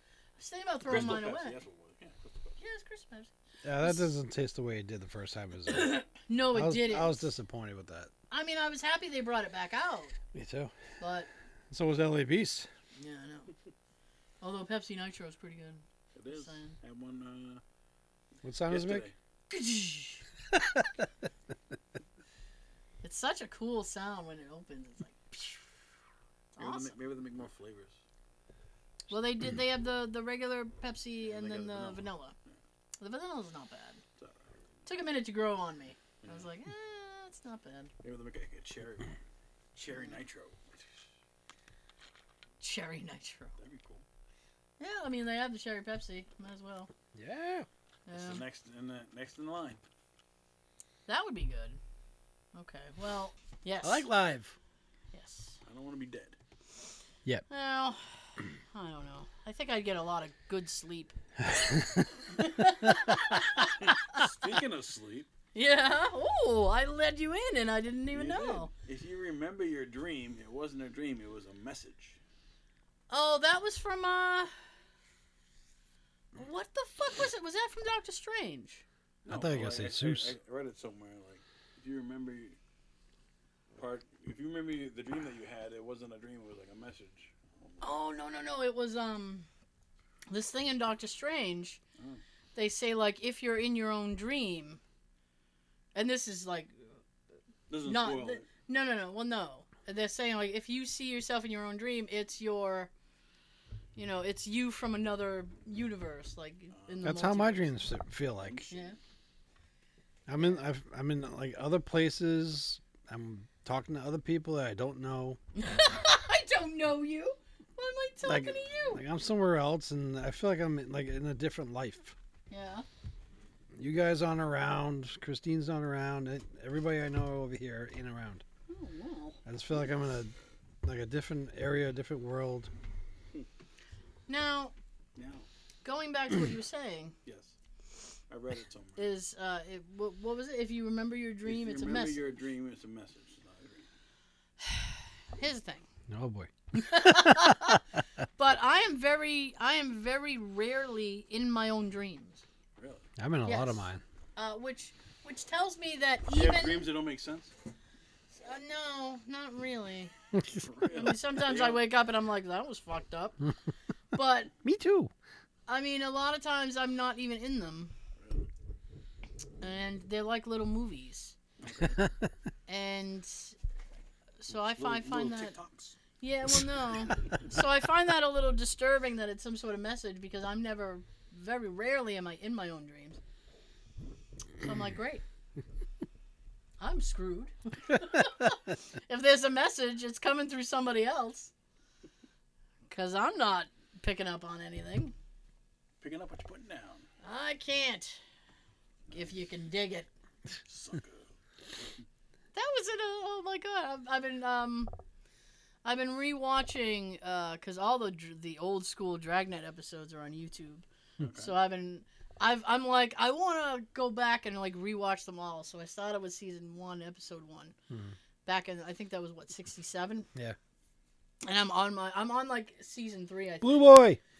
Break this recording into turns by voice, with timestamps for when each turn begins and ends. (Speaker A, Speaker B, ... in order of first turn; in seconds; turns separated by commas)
Speaker A: 0.4-1.6, Speaker B: 0.8-2.6, Speaker A: 2.6-4.1, Speaker C: 3.6-8.1, Speaker A: 5.7-7.3, Speaker A: 8.3-10.2, Speaker C: 10.3-10.7, Speaker A: 11.0-11.3, Speaker C: 11.7-12.7, Speaker A: 13.0-13.5, Speaker A: 14.4-16.8, Speaker B: 16.1-17.6, Speaker C: 18.4-19.1, Speaker B: 18.7-19.1, Speaker A: 19.5-20.2, Speaker C: 20.6-20.9, Speaker A: 23.0-25.7, Speaker A: 26.6-26.9, Speaker B: 26.6-28.0, Speaker A: 29.1-32.4, Speaker B: 31.2-32.6, Speaker A: 33.0-34.0, Speaker B: 34.2-34.5, Speaker A: 34.9-37.9, Speaker B: 36.2-36.5, Speaker B: 38.0-39.2, Speaker B: 39.8-40.9, Speaker A: 42.6-43.5, Speaker B: 43.6-44.0, Speaker A: 44.8-46.9, Speaker C: 47.1-47.7, Speaker A: 48.1-48.4, Speaker B: 48.1-49.8, Speaker A: 51.1-51.8, Speaker A: 52.5-54.1, Speaker C: 53.8-54.6, Speaker A: 55.1-55.6, Speaker B: 55.6-56.4, Speaker A: 57.5-61.2, Speaker C: 61.5-62.1, Speaker A: 62.4-64.2, Speaker B: 63.8-65.3, Speaker A: 65.5-68.7, Speaker B: 68.1-72.2, Speaker A: 73.1-74.5, Speaker A: 76.3-78.8, Speaker B: 79.2-82.6, Speaker C: 79.3-80.3, Speaker B: 83.8-88.0, Speaker A: 87.8-89.5, Speaker A: 90.3-91.8, Speaker A: 92.5-94.8, Speaker A: 96.0-97.0, Speaker B: 97.7-98.5, Speaker A: 97.8-102.9, Speaker A: 104.0-107.7, Speaker B: 106.7-107.1, Speaker C: 107.0-108.7, Speaker B: 108.4-108.9, Speaker A: 108.7-109.0, Speaker C: 110.3-115.4, Speaker A: 115.6-119.0, Speaker C: 118.2-122.2, Speaker A: 122.5-122.9, Speaker C: 123.8-128.4, Speaker A: 128.7-129.4, Speaker C: 129.5-132.7, Speaker A: 134.3-134.8, Speaker B: 135.2-135.5, Speaker A: 135.8-137.2, Speaker B: 137.2-137.6, Speaker B: 138.3-139.1, Speaker A: 139.0-142.5, Speaker B: 141.4-143.9, Speaker A: 144.6-145.9, Speaker C: 146.1-147.8, Speaker A: 146.7-147.8, Speaker A: 148.4-152.4, Speaker B: 152.8-153.1, Speaker C: 153.2-154.0, Speaker A: 153.4-156.9, Speaker B: 156.3-157.5, Speaker A: 158.3-160.1, Speaker B: 160.5-161.8, Speaker A: 160.9-163.4, Speaker A: 164.1-164.5, Speaker C: 164.6-165.1, Speaker A: 165.7-167.9, Speaker B: 168.2-168.5, Speaker A: 169.6-171.4, Speaker B: 171.6-172.0, Speaker A: 172.7-173.6, Speaker A: 174.4-175.6, Speaker B: 174.5-176.0, Speaker A: 176.2-183.2, Speaker A: 184.6-185.2, Speaker A: 186.8-191.5, Speaker A: 192.9-195.1, Speaker B: 196.0-197.1, Speaker A: 197.2-198.2, Speaker A: 199.1-200.1, Speaker B: 200.7-201.3, Speaker A: 202.5-204.9, Speaker A: 205.8-217.8, Speaker B: 211.2-211.5, Speaker C: 217.9-218.2, Speaker A: 218.4-220.3, Speaker A: 221.4-223.9, Speaker C: 223.6-224.2